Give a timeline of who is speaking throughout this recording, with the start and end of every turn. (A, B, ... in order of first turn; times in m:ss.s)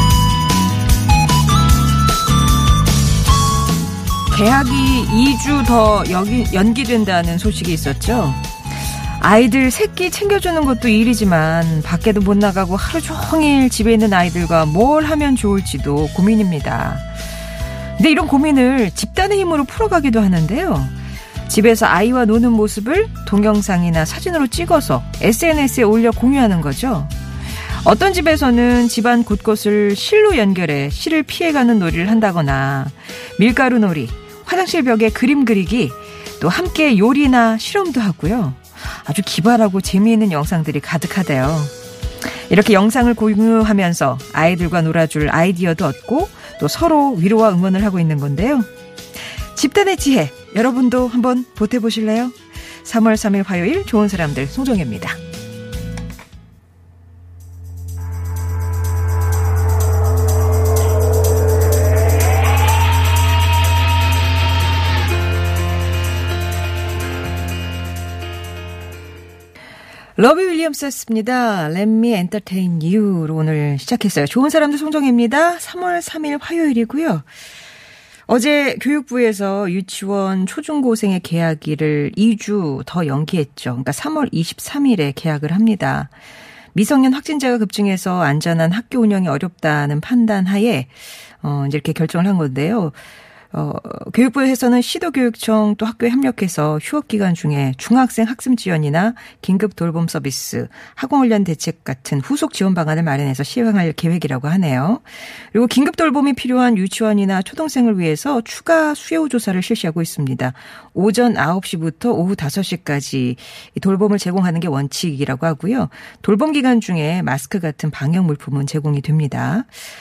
0:04.3-0:08.5 A
0:09.2-0:17.1 A
0:18.0-0:20.9 A
0:21.5-0:27.1 A
0:27.8-0:41.7 A
0:42.5-0:48.7 A
0:49.6-0:55.2 A
1:10.2-1:17.2 A
1:18.3-1:26.1 A
1:26.7-1:33.0 A
1:33.5-1:59.7 A